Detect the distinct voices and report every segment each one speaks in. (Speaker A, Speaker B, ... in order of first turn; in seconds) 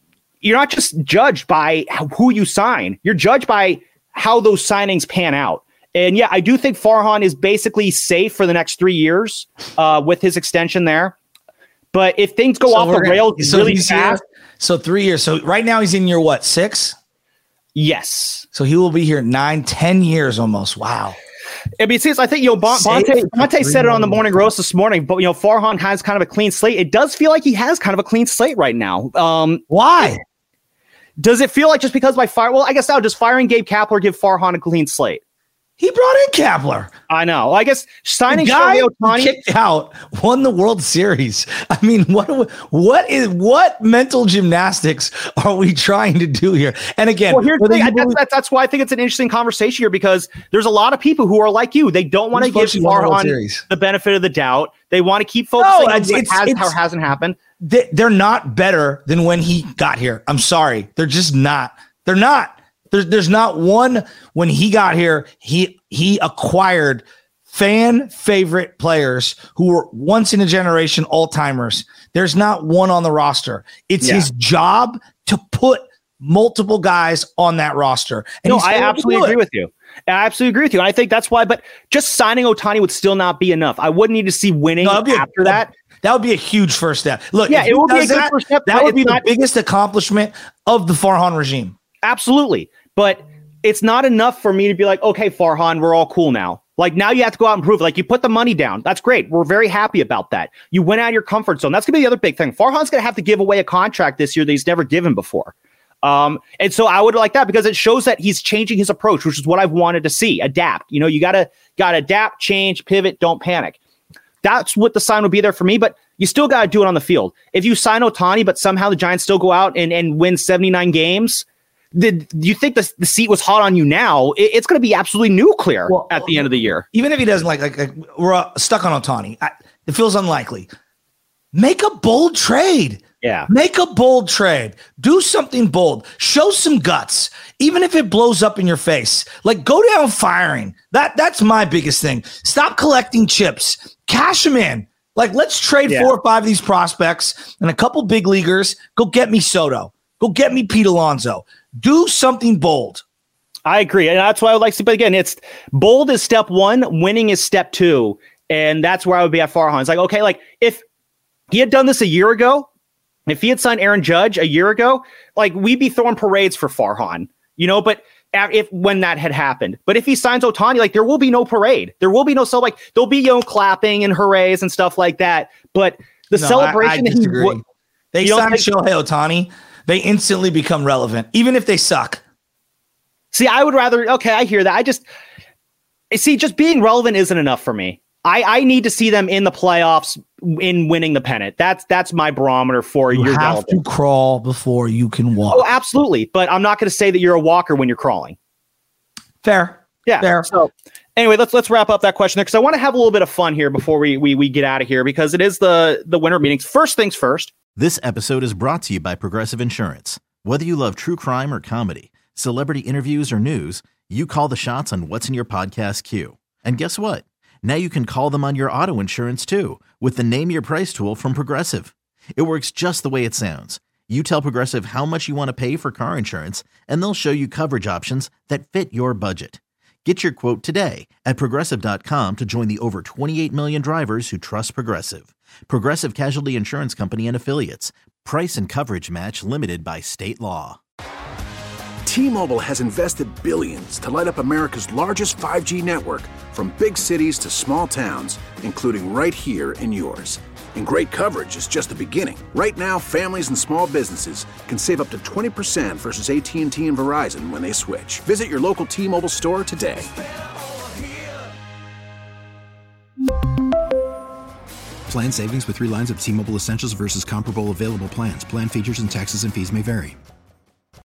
Speaker A: 0.4-11.1, 11.9-14.2, 17.8-18.4, 21.8-30.1, 31.2-35.2, 37.1-39.4, 47.3-57.4, 74.0-74.3, 78.5-85.7, 87.5-89.2, 92.0-113.8, 114.4-126.8, 133.2-133.5, 153.7-160.8, 161.5-162.7, 163.3-177.6, 178.2-178.6, 183.3-185.0, 186.1-193.8, 195.5-198.3, 200.1-207.5
Speaker B: 12.7-16.9, 18.5-21.2, 22.7-24.5, 29.7-30.2, 35.8-36.9, 38.3-48.2, 52.3-53.6, 55.6-56.7, 57.6-79.4, 84.8-91.7, 125.9-130.7, 131.5-153.0, 176.3-177.6, 178.1-182.2, 193.1-195.7, 199.4-200.5
Speaker C: 207.8-240.8
Speaker D: 242.0-260.1
Speaker E: 265.1-270.1